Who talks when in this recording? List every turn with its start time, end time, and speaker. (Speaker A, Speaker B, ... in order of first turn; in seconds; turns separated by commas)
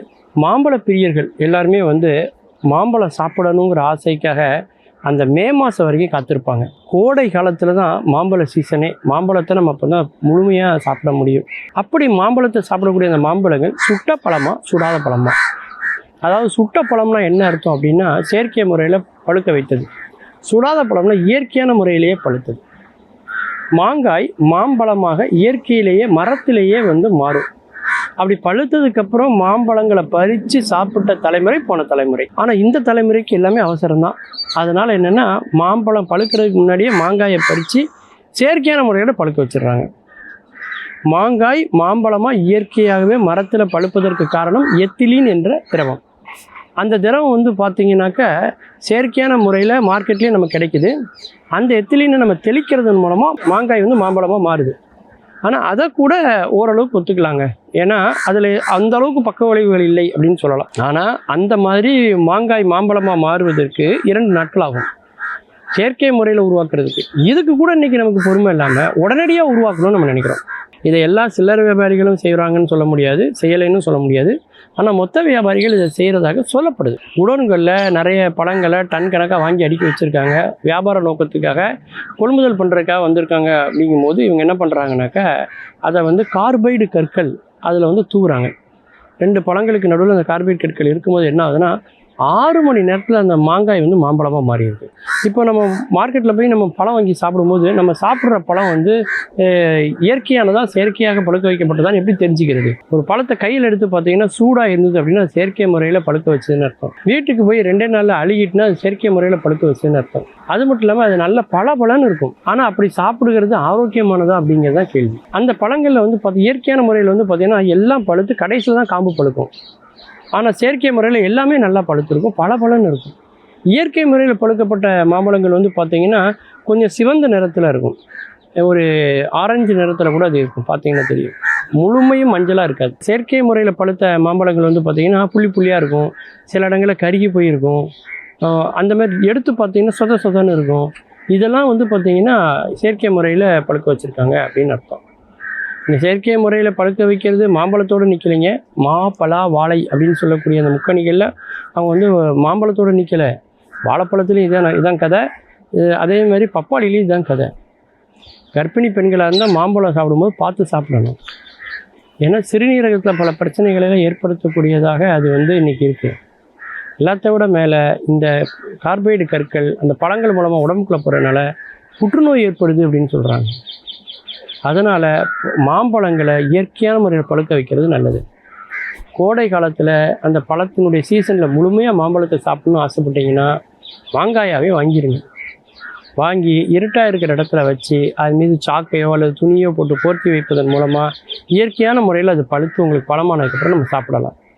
Speaker A: 0.4-2.1, Speaker A: 2.7-4.5, Speaker A: 5.1-15.3, Speaker A: 16.2-19.9, Speaker A: 20.4-22.6, Speaker A: 23.8-27.5, Speaker A: 28.2-39.9, Speaker A: 41.1-46.0, Speaker A: 46.8-48.3, Speaker A: 48.8-50.9, Speaker A: 51.5-54.8, Speaker A: 55.4-64.9, Speaker A: 65.7-85.3, Speaker A: 85.8-88.5, Speaker A: 89.2-91.8, Speaker A: 92.3-119.5, Speaker A: 120.3-123.1, Speaker A: 123.7-128.0, Speaker A: 128.6-137.9, Speaker A: 138.4-145.0, Speaker A: 145.9-153.3, Speaker A: 153.8-155.2, Speaker A: 155.8-157.5, Speaker A: 158.5-161.2, Speaker A: 162.2-166.2, Speaker A: 167.0-171.5, Speaker A: 172.0-173.5, Speaker A: 174.7-178.2, Speaker A: 179.2-183.5, Speaker A: 184.1-185.2, Speaker A: 186.2-194.3